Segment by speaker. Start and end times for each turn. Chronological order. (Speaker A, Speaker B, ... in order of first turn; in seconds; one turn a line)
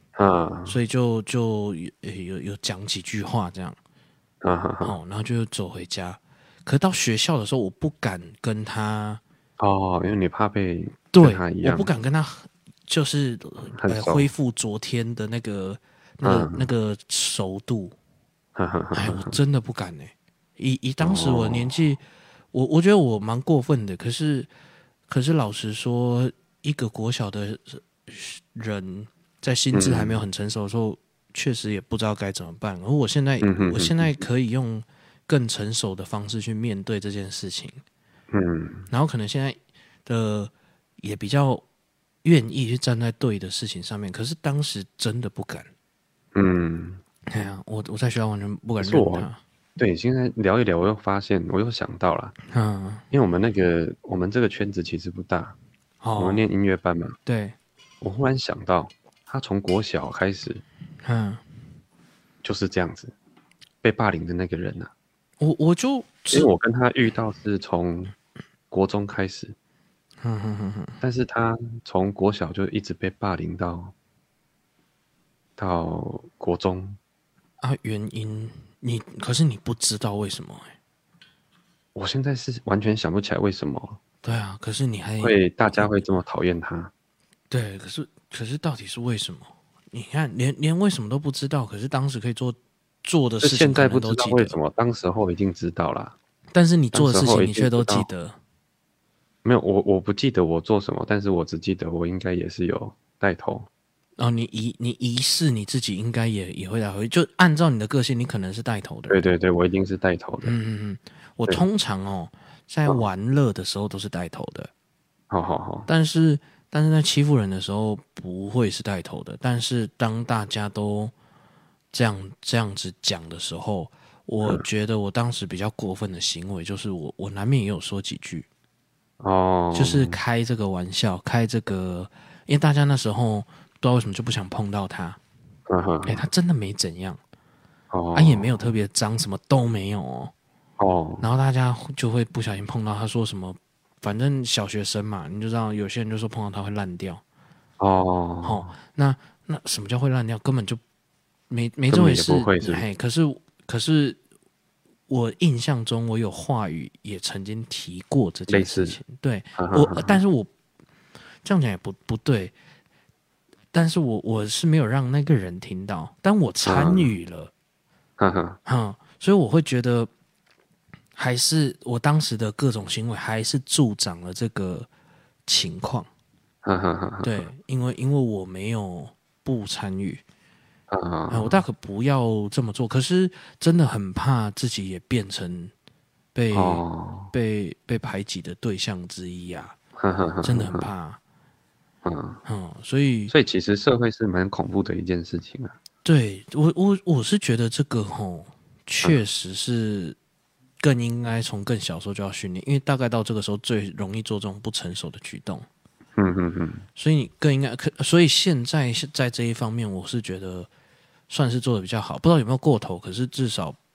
Speaker A: 0.1-0.8
Speaker B: 0.7-3.8
Speaker A: 4.4-5.0
Speaker B: 4.8-9.2
Speaker A: 9.6-11.9
Speaker B: 11.1-17.9
Speaker A: 13.7-14.3
Speaker A: 16.2-16.7
Speaker A: 18.6-19.4
Speaker B: 18.9-24.5
Speaker A: 21.0-21.8
Speaker B: 25.1-37.8
Speaker A: 29.7-30.2
Speaker A: 33.4-34.1
Speaker A: 38.3-38.9
Speaker B: 38.9-41.6
Speaker B: 42.2-45.7
Speaker A: 46.3-47.0
Speaker B: 47.3-49.4
Speaker A: 48.8-52.4
Speaker B: 52.5-53.0
Speaker A: 53.1-55.6
Speaker B: 56.0-56.5
Speaker A: 56.2-57.2
Speaker B: 57.3-57.6
Speaker A: 58.0-60.6
Speaker B: 61.0-61.4
Speaker A: 62.4-63.1
Speaker A: 63.8-64.9
Speaker B: 65.4-66.5
Speaker A: 66.3-68.2
Speaker A: 68.7-69.6
Speaker B: 70.2-71.0
Speaker A: 71.0-73.9
Speaker A: 75.6-77.0
Speaker B: 77.6-80.7
Speaker A: 82.0-84.0
Speaker B: 84.2-85.3
Speaker A: 85.2-86.9
Speaker B: 87.5-94.6
Speaker A: 93.4-96.2
Speaker B: 96.5-98.4
Speaker A: 96.9-98.1
Speaker A: 99.5-103.7
Speaker B: 104.2-109.3
Speaker A: 109.1-110.5
Speaker B: 110.4-114.7
Speaker A: 115.3-115.9
Speaker B: 115.9-121.1
Speaker B: 121.9-128.5
Speaker A: 129.2-130.2
Speaker B: 129.7-135.2
Speaker A: 135.7-136.3
Speaker B: 136.1-137.2
Speaker A: 137.9-138.7
Speaker B: 138.1-140.3
Speaker A: 140.8-141.2
Speaker B: 141.2-147.2
Speaker A: 147.8-148.7
Speaker B: 148.4-150.8
Speaker B: 151.5-154.2
Speaker A: 151.9-152.8
Speaker B: 155.1-160.5
Speaker A: 158.5-159.0
Speaker A: 159.6-160.2
Speaker B: 161.4-162.5
Speaker B: 163.7-167.5
Speaker A: 166.7-167.1
Speaker A: 168.2-168.6
Speaker B: 168.7-170.1
Speaker B: 171.2-174.9
Speaker B: 175.5-176.1
Speaker A: 176.6-177.5
Speaker B: 177.2-180.2
Speaker A: 180.9-181.6
Speaker B: 181.3-185.7
Speaker B: 186.3-189.8
Speaker A: 186.5-187.3
Speaker A: 190.0-190.9
Speaker B: 190.4-191.2
Speaker A: 192.0-192.4
Speaker B: 192.4-193.3
Speaker A: 193.3-195.8
Speaker B: 196.1-200.2
Speaker B: 200.8-205.7
Speaker A: 206.2-206.8
Speaker B: 207.0-210.7
Speaker B: 211.3-213.8